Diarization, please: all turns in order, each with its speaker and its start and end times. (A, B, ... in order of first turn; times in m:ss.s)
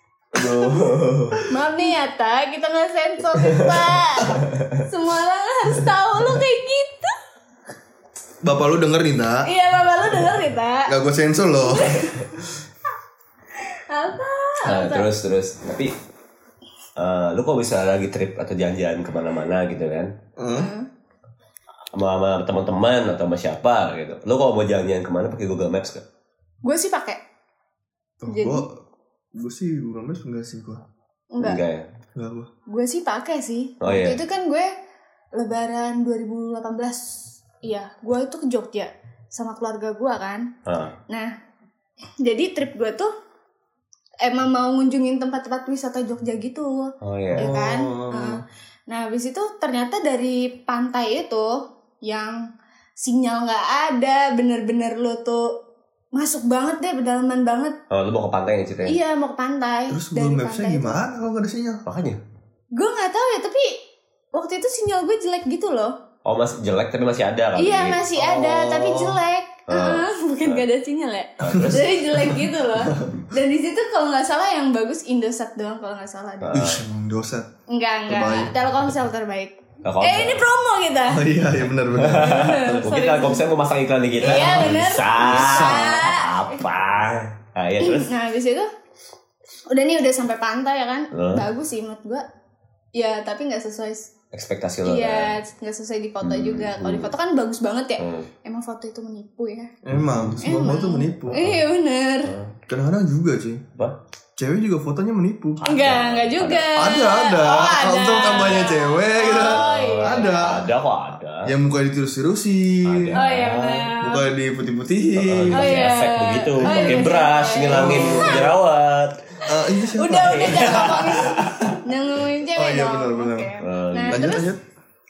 0:00.3-0:01.4 A
0:00.4-0:00.8 B
0:01.5-0:07.1 B
0:03.4-0:04.8 A
0:08.4-0:09.5 C
0:09.4-0:10.9 B
0:10.9-0:12.0 C
0:11.6-0:12.2 B
0:13.9-0:15.1 B
0:14.6-0:15.9 A
0:17.0-0:20.1 A
0:20.4-0:20.7 C
0:20.5-0:20.9 B
0:21.9-0:26.0 A
0:26.6-0:27.2 B
0:28.2-0:28.8 C
0:28.3-0:28.6 B
0:29.3-0:30.8 C
0:31.3-0:31.6 B
0:31.4-0:31.9 A
0:32.2-0:32.5 C
0:32.7-0:34.7 B
0:33.8-0:34.2 A
0:35.3-0:40.5 B
0:40.6-0:40.9 A
0:42.2-0:43.1 B
0:44.2-0:52.4 B
0:47.0-0:47.5 A
0:47.3-0:48.4 C
0:53.0-0:55.5 B
0:56.1-0:57.8 B
0:57.9-0:59.0 A
0:58.8-1:01.0 B
0:59.9-1:01.8 C
1:01.8-1:02.2 A
1:02.7-1:03.8 B
1:04.3-1:05.9 B
1:06.2-1:08.1 A
1:07.6-1:16.6 B
1:08.2-1:09.1 C
1:09.7-1:10.6 A
1:11.4-1:12.3 A
1:11.4-1:11.8 C
1:12.8-1:13.1 C
1:16.4-1:16.8 A
1:16.5-1:17.5 C
1:17.7-1:21.2 B
1:18.1-1:18.5 C
1:19.8-1:20.4 A
1:21.1-1:22.8 C
1:21.9-1:28.1 A
1:22.2-1:23.4 B
1:24.2-1:26.6 B
1:24.2-1:26.0 C
1:27.8-1:28.7 B
1:29.7-1:32.2 B
1:31.1-1:31.5 A
1:32.9-1:34.1 B
1:34.3-1:35.4 A
1:34.8-1:39.7 B
1:36.2-1:37.1 A
1:38.0-1:38.3 A
1:39.8-1:41.4 C
1:39.9-1:40.4 A
1:40.4-1:42.3 B
1:41.3-1:41.6 A
1:42.2-1:42.6 A
1:42.7-1:43.6 C
1:44.4-1:45.6 C
1:45.6-1:46.7 A
1:45.6-1:50.4 B
1:46.8-1:50.7 C
1:49.4-1:51.5 A
1:51.4-1:53.2 C
1:52.8-1:53.9 A
1:53.1-1:54.2 B
1:54.0-1:55.9 C
1:55.2-1:59.2 A
1:55.5-1:58.5 B
1:56.6-1:57.1 C
1:57.7-1:58.5 C
1:59.5-2:01.7 C
1:59.6-2:04.4 B
2:00.1-2:01.8 A
2:02.5-2:03.6 C
2:03.6-2:04.4 A
2:04.1-2:04.6 C